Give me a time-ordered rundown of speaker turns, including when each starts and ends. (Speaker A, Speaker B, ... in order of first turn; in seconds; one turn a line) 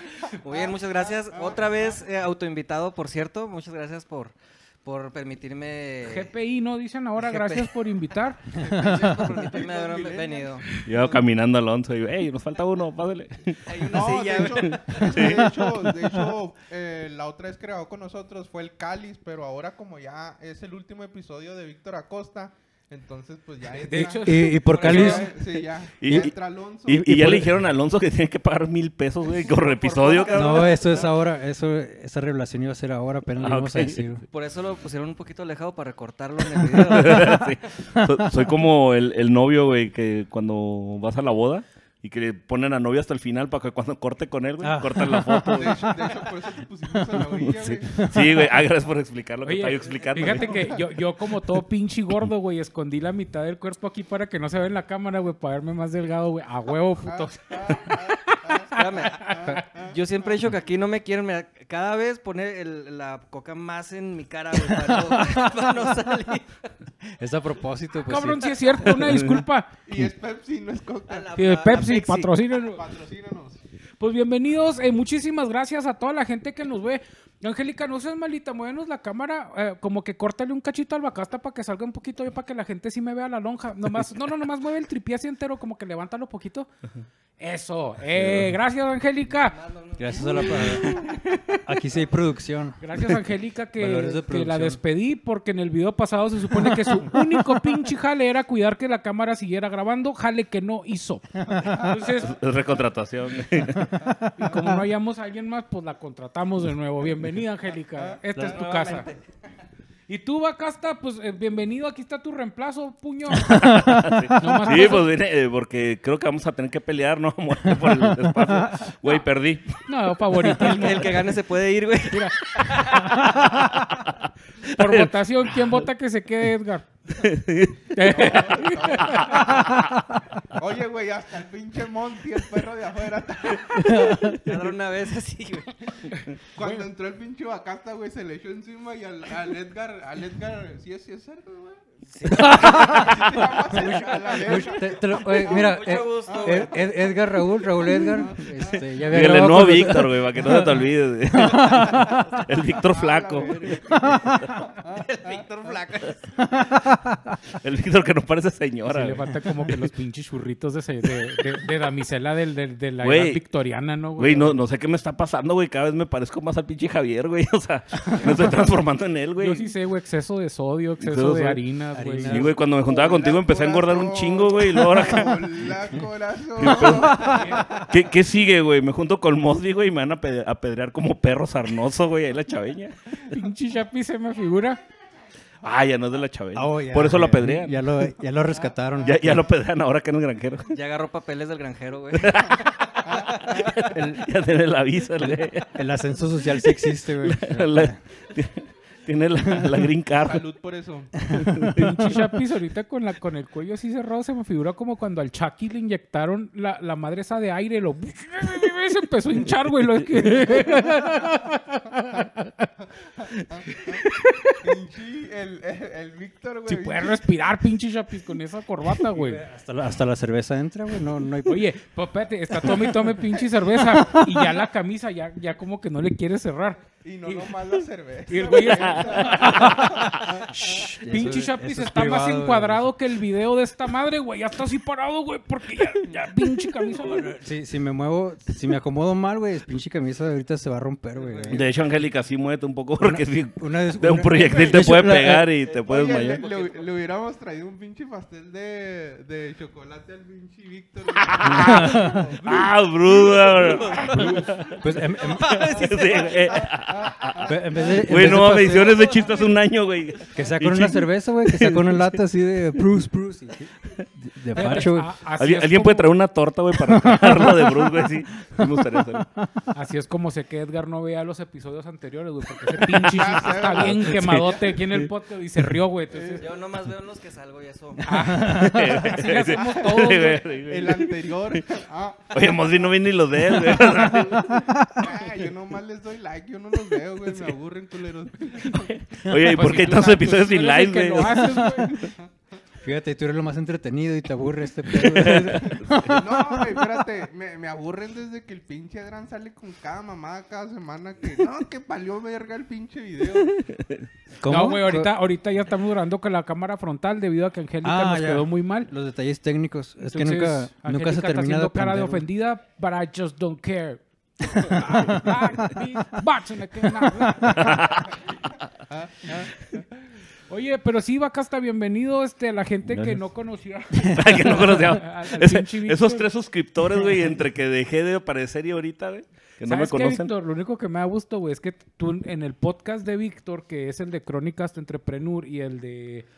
Speaker A: 0.2-2.0
Speaker B: 0.3-4.3
Speaker B: 4.8-6.3
Speaker C: 6.0-8.4
Speaker B: 7.2-7.7
Speaker A: 8.5-11.2
Speaker D: 8.6-9.4
Speaker B: 9.4-10.7
Speaker E: 10.8-13.8
Speaker B: 13.7-15.2
Speaker A: 13.9-27.1
Speaker E: 14.4-15.5
Speaker C: 23.8-25.1
Speaker D: 23.9-26.3
Speaker B: 24.6-25.2
Speaker E: 26.0-30.6
Speaker D: 26.9-27.6
Speaker B: 29.2-31.1
Speaker A: 30.1-31.1
Speaker D: 30.3-34.2
Speaker E: 33.4-34.0
Speaker B: 34.3-37.4
Speaker D: 36.7-38.5
Speaker E: 36.9-45.9
Speaker D: 44.6-46.3
Speaker A: 45.5-48.4
Speaker D: 46.9-48.5
Speaker E: 47.5-50.8
Speaker C: 49.4-59.6
Speaker A: 57.0-60.0
Speaker B: 58.7-66.7
Speaker D: 64.5-66.3
Speaker D: 67.0-68.5
Speaker C: 68.1-69.7
Speaker E: 68.8-69.4
Speaker A: 69.8-71.3
Speaker B: 71.1-72.3
Speaker C: 71.3-72.8
Speaker A: 72.6-73.6
Speaker C: 74.0-86.7
Speaker C: 87.4-89.6
Speaker E: 88.2-88.5
Speaker B: 89.3-91.0
Speaker D: 90.0-91.0
Speaker C: 90.2-91.1
Speaker D: 91.6-93.2
Speaker C: 92.8-102.3
Speaker D: 93.7-94.8
Speaker D: 96.5-97.8
Speaker A: 101.6-102.0
Speaker E: 102.2-103.9
Speaker D: 103.7-104.7
Speaker C: 104.3-109.1
Speaker B: 108.3-109.2
Speaker C: 110.1-113.7
Speaker E: 113.5-119.8
Speaker D: 113.5-114.2
Speaker C: 114.3-115.1
Speaker D: 117.7-118.8
Speaker C: 119.9-121.2
Speaker B: 120.6-122.3
Speaker C: 122.1-123.0
Speaker E: 122.7-125.1
Speaker D: 123.2-123.7
Speaker C: 124.7-127.2
Speaker E: 127.2-129.9
Speaker C: 127.9-129.6
Speaker A: 128.0-129.8
Speaker A: 130.5-134.1
Speaker D: 133.8-134.4
Speaker B: 134.2-136.1
Speaker A: 136.5-141.8
Speaker B: 142.1-143.0
Speaker D: 142.3-152.4
Speaker A: 142.4-146.8
Speaker B: 144.5-147.1
Speaker A: 147.7-149.0
Speaker E: 149.0-153.7
Speaker A: 152.9-155.8
Speaker D: 153.9-154.4
Speaker E: 154.2-154.5
Speaker B: 154.9-156.3
Speaker D: 156.5-157.3
Speaker E: 157.5-159.3
Speaker C: 158.9-164.6
Speaker E: 163.0-163.4
Speaker E: 164.2-169.7
Speaker C: 169.4-172.5
Speaker E: 171.0-171.6
Speaker D: 171.9-172.7
Speaker E: 172.2-175.5
Speaker A: 172.8-177.9
Speaker D: 175.0-175.3
Speaker E: 176.6-183.4
Speaker D: 176.6-177.8
Speaker C: 177.3-177.6
Speaker C: 183.3-184.8
Speaker E: 185.6-187.8
Speaker D: 186.5-189.5
Speaker A: 188.6-189.2
Speaker E: 189.0-190.8
Speaker B: 190.7-192.4
Speaker E: 192.1-195.8
Speaker A: 193.0-193.8
Speaker D: 193.9-194.2
Speaker D: 195.2-198.0
Speaker E: 196.6-200.4
Speaker D: 199.4-199.9
Speaker A: 200.1-201.2
Speaker D: 201.2-201.9
Speaker E: 201.3-202.1
Speaker C: 201.7-212.7
Speaker A: 213.2-214.0
Speaker C: 214.0-214.6
Speaker A: 214.6-217.2
Speaker C: 216.7-219.4
Speaker D: 219.1-221.7
Speaker C: 221.4-227.5
Speaker D: 222.6-223.2
Speaker D: 223.8-224.6
Speaker A: 227.0-230.9
Speaker C: 228.3-237.3
Speaker E: 228.6-230.3
Speaker D: 230.8-232.9
Speaker D: 236.9-241.7
Speaker A: 241.2-241.8
Speaker E: 241.5-246.4
Speaker D: 243.0-245.5
Speaker B: 245.6-246.9
Speaker A: 245.8-254.4
Speaker E: 251.1-254.8
Speaker D: 251.5-252.4
Speaker B: 253.3-256.7
Speaker D: 254.8-255.8
Speaker A: 255.7-258.5
Speaker E: 255.7-262.2
Speaker D: 257.4-259.1
Speaker B: 258.6-259.6
Speaker A: 259.0-259.5
Speaker D: 260.3-265.2
Speaker C: 264.5-266.1
Speaker E: 265.4-269.3
Speaker D: 266.7-269.7
Speaker C: 269.7-276.5
Speaker A: 273.0-274.2
Speaker E: 273.4-274.7
Speaker A: 276.1-276.4
Speaker B: 276.4-278.1
Speaker C: 278.1-280.5
Speaker D: 278.1-279.1
Speaker E: 278.5-281.6
Speaker A: 280.5-282.9
Speaker E: 282.3-284.6
Speaker D: 283.4-285.4
Speaker A: 284.9-289.0
Speaker E: 288.8-291.4
Speaker D: 289.2-289.6
Speaker C: 289.4-292.1
Speaker D: 291.3-292.1
Speaker D: 292.8-297.0
Speaker E: 294.9-296.1
Speaker A: 295.6-303.6
Speaker E: 303.4-304.1
Speaker D: 304.4-305.1
Speaker C: 304.4-308.9
Speaker D: 307.8-312.2
Speaker C: 310.0-317.7
Speaker D: 314.6-315.8
Speaker D: 317.0-317.7
Speaker E: 317.5-318.2
Speaker A: 318.9-319.9
Speaker C: 320.5-326.3
Speaker E: 322.9-323.2
Speaker E: 324.1-330.3
Speaker C: 329.6-336.2